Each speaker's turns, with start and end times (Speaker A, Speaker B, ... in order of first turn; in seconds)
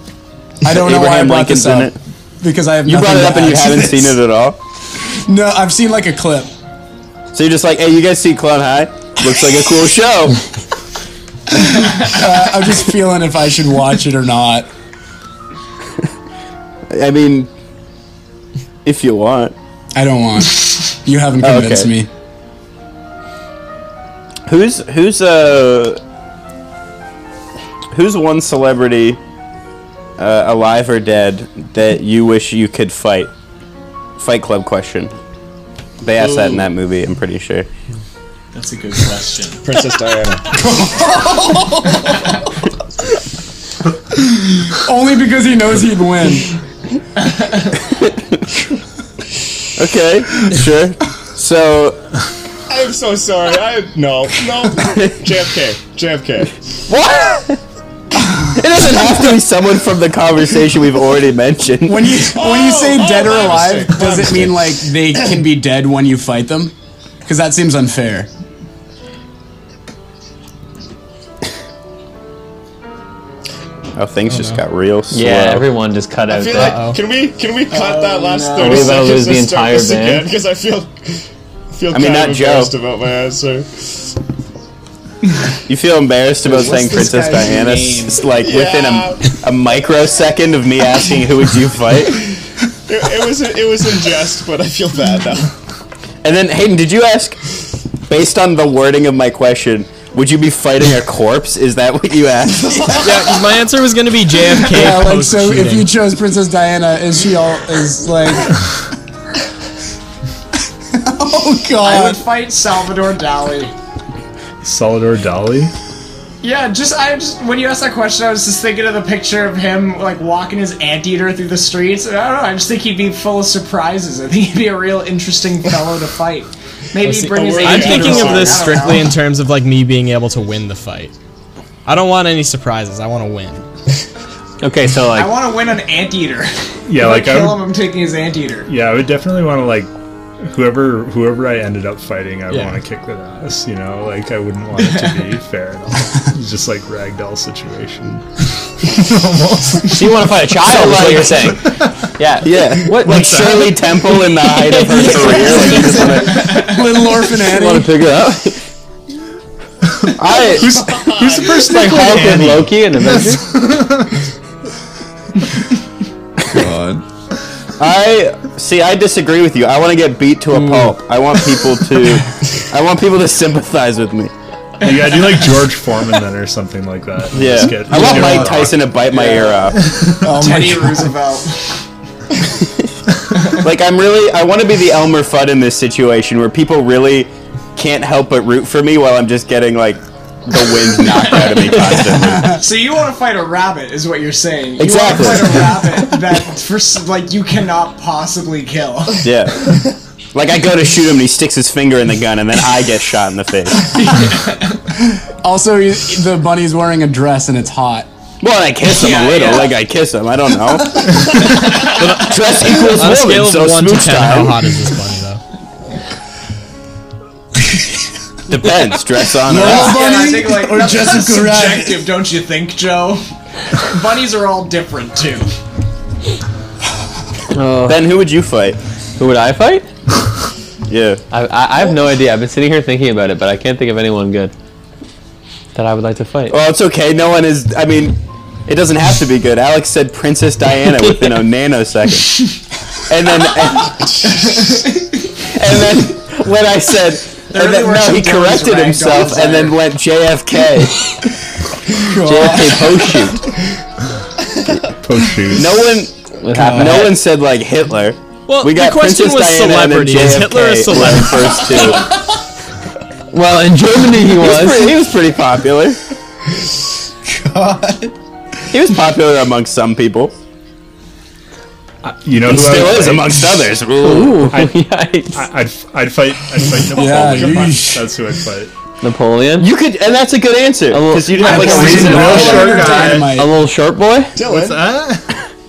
Speaker A: 0.6-4.2, 5.1-6.5, 11.6-14.7, 19.9-22.1, 40.6-41.7, 44.6-46.6, 61.9-66.7, 67.2-68.3, 104.7-108.8, 110.9-112.2, 155.3-157.9, 166.5-167.0, 170.6-170.9, 180.1-181.1, 192.2-192.6, 205.2-208.1, 219.4-222.1, 252.0-253.0, 267.2-268.1, 276.9-278.1, 281.4-283.5
Speaker B: 0.6-1.9, 2.9-4.6, 7.3-10.4, 16.9-17.5, 18.8-19.5, 21.4-21.9, 24.5-26.0, 27.9-29.2, 30.2-33.3, 34.2-35.1, 36.0-37.7, 48.0-48.3, 49.8-52.0, 56.9-57.6, 58.4-62.2, 74.0-75.6, 81.9-82.7, 85.7-92.3, 96.2-97.4, 98.1-102.9, 150.7-151.4, 152.4-156.6, 160.2-160.8, 167.8-174.3, 177.3-179.8, 182.6-182.9, 183.5-192.6, 194.8-195.8, 199.2-199.8, 200.3-203.9, 208.4-214.7, 218.5-220.2, 227.8-228.8, 230.9-231.2, 236.5-242.3, 243.1-244.1, 245.5-251.2, 252.1-253.5, 255.5-262.1, 264.3-266.0, 268.7-270.3, 272.4-274.5, 279.6-282.9
Speaker C: 38.5-39.6, 47.2-47.7, 77.7-79.1, 86.4-88.2, 111.8-113.7, 116.4-129.2, 135.1-138.7, 144.8-145.3, 155.7-157.1, 178.0-179.7, 180.2-181.8, 191.1-199.3, 203.8-204.8, 208.9-209.7, 211.4-212.1, 219.6-223.2, 223.8-225.5, 244.3-244.8, 247.5-249.8
Speaker D: 39.6-40.6, 52.7-56.5, 62.3-64.8, 76.3-83.9, 88.4-89.4, 92.9-95.5, 102.6-103.3, 127.2-129.0, 160.5-161.8, 276.9-277.8, 284.4-284.8
Speaker E: 74.3-74.6, 76.6-77.0, 102.9-105.9, 127.6-131.1, 131.8-133.6, 212.0-215.4, 258.5-261.9
Speaker F: 75.1-76.8, 78.6-80.3, 134.6-135.3, 149.9-153.7, 154.4-156.1, 157.4-158.6, 161.6-163.4, 227.5-228.1, 229.2-229.9, 231.3-234.5, 235.7-236.6, 256.4-257.2, 263.3-265.0, 274.0-275.4, 279.0-279.7, 280.9-284.4
Speaker G: 114.6-115.7, 136.9-137.6, 138.7-139.9, 140.4-150.1, 151.0-151.9, 153.1-153.6, 159.9-164.1, 174.8-179.1, 179.8-180.2, 255.0-256.0, 272.0-273.7, 274.4-278.7, 281.5-283.3, 284.4-285.3